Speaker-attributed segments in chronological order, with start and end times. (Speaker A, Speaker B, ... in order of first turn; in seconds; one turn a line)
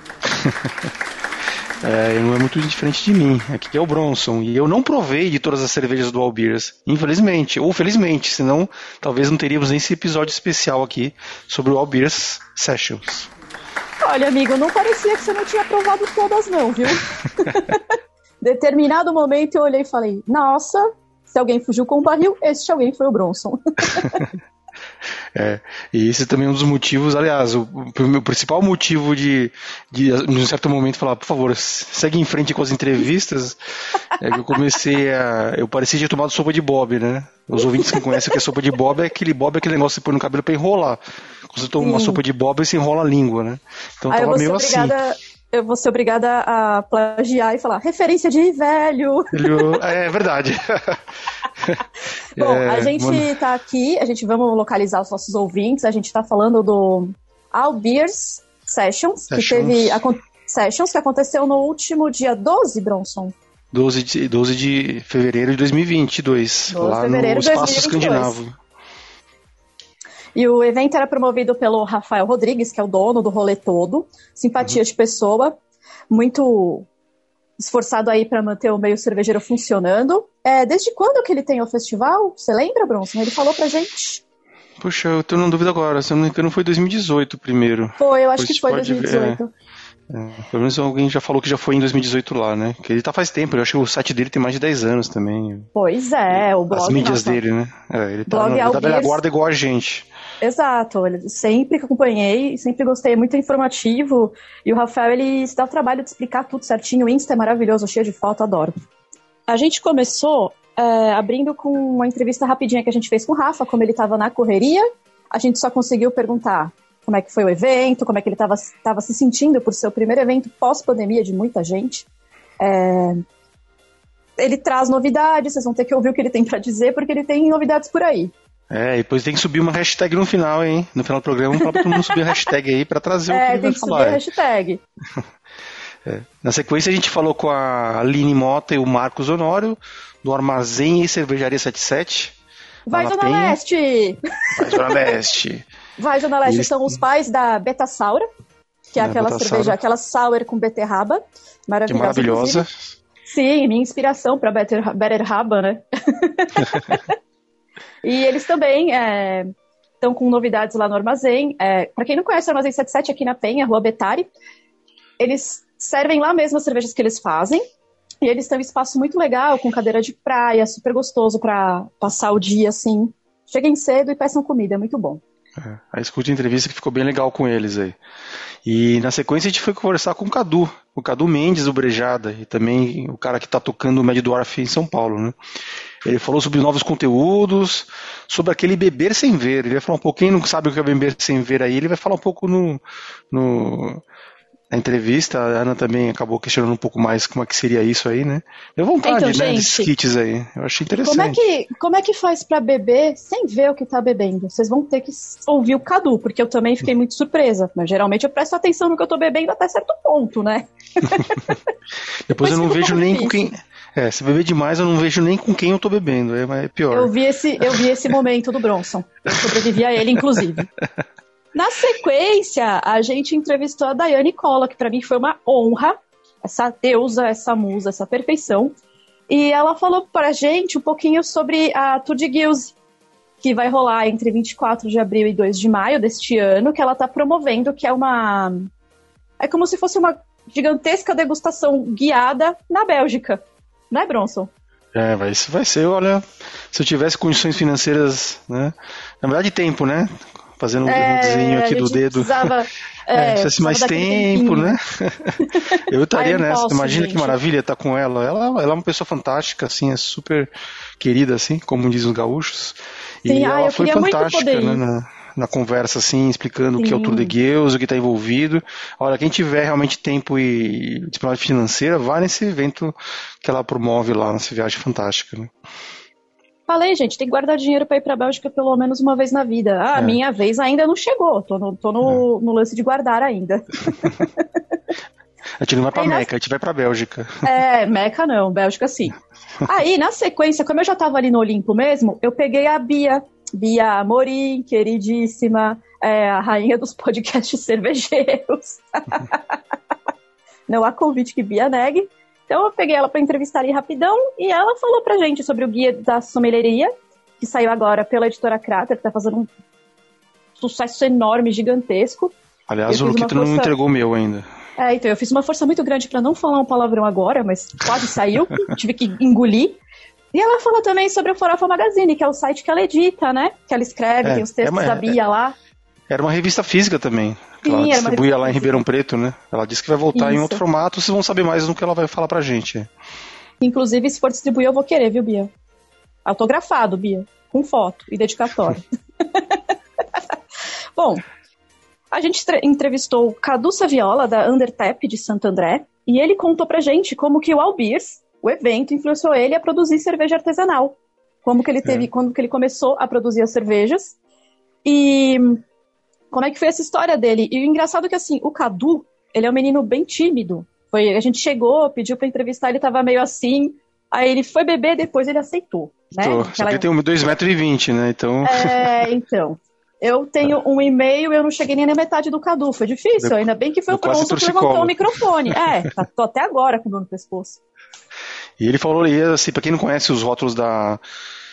Speaker A: 0.3-0.9
Speaker A: 1.8-13.3
Speaker B: 14.0-17.8
Speaker B: 18.4-24.2
Speaker A: 25.3-45.0
Speaker B: 41.8-42.2
Speaker B: 44.1-49.6
Speaker A: 49.3-51.0
Speaker A: 52.4-53.3
Speaker B: 52.4-63.3
Speaker A: 59.3-60.0
Speaker A: 63.7-68.6
Speaker B: 66.7-68.3
Speaker B: 70.3-75.6
Speaker B: 76.1-76.9
Speaker B: 77.6-84.2
Speaker A: 84.8-89.4
Speaker B: 88.0-89.5
Speaker A: 90.1-95.7
Speaker B: 95.7-97.4
Speaker A: 96.3-100.1
Speaker B: 98.3-99.2
Speaker B: 100.4-108.7
Speaker B: 109.5-122.0
Speaker B: 122.6-123.2
Speaker B: 124.4-128.3
Speaker A: 128.7-134.2
Speaker B: 131.7-132.3
Speaker B: 133.3-134.8
Speaker A: 136.0-142.3
Speaker B: 142.9-145.1
Speaker A: 142.9-143.6
Speaker A: 144.6-145.7
Speaker B: 146.0-148.3
Speaker A: 146.4-146.9
Speaker B: 148.9-152.7
Speaker A: 149.0-149.8
Speaker A: 151.9-152.9
Speaker B: 153.3-157.1
Speaker B: 158.0-164.3
Speaker B: 165.2-167.6
Speaker B: 168.2-175.2
Speaker A: 175.6-178.0
Speaker A: 178.6-185.4
Speaker A: 186.0-194.0
Speaker A: 194.7-201.4
Speaker B: 199.0-199.9
Speaker B: 201.0-211.6
Speaker A: 212.3-217.1
Speaker B: 212.3-213.5
Speaker B: 216.9-220.7
Speaker B: 221.5-228.7
Speaker B: 229.3-232.7
Speaker B: 233.4-238.7
Speaker B: 239.4-244.5
Speaker A: 244.9-252.5
Speaker B: 250.8-254.8
Speaker A: 253.1-275.5
Speaker B: 256.1-257.4
Speaker B: 263.3-264.8
Speaker B: 266.8-267.3
Speaker B: 276.7-284.4
Speaker A: 285.6-287.4
Speaker B: 285.9-286.2
Speaker B: 287.4-299.6
Speaker B: 300.7-309.5
Speaker B: 310.6-312.3
Speaker A: 312.7-314.5
Speaker B: 312.9-313.7
Speaker B: 314.8-319.8
Speaker B: 320.3-325.5
Speaker A: 324.2-325.1
Speaker A: 326.1-332.9
Speaker B: 327.6-328.8
Speaker B: 330.1-330.6
Speaker B: 333.6-335.5
Speaker B: 336.2-339.6
Speaker B: 341.0-341.2
Speaker B: 342.1-354.1
Speaker B: 354.8-355.6
Speaker B: 356.3-366.9
Speaker A: 366.2-369.0
Speaker B: 368.4-377.6
Speaker A: 373.2-375.0
Speaker A: 378.6-381.0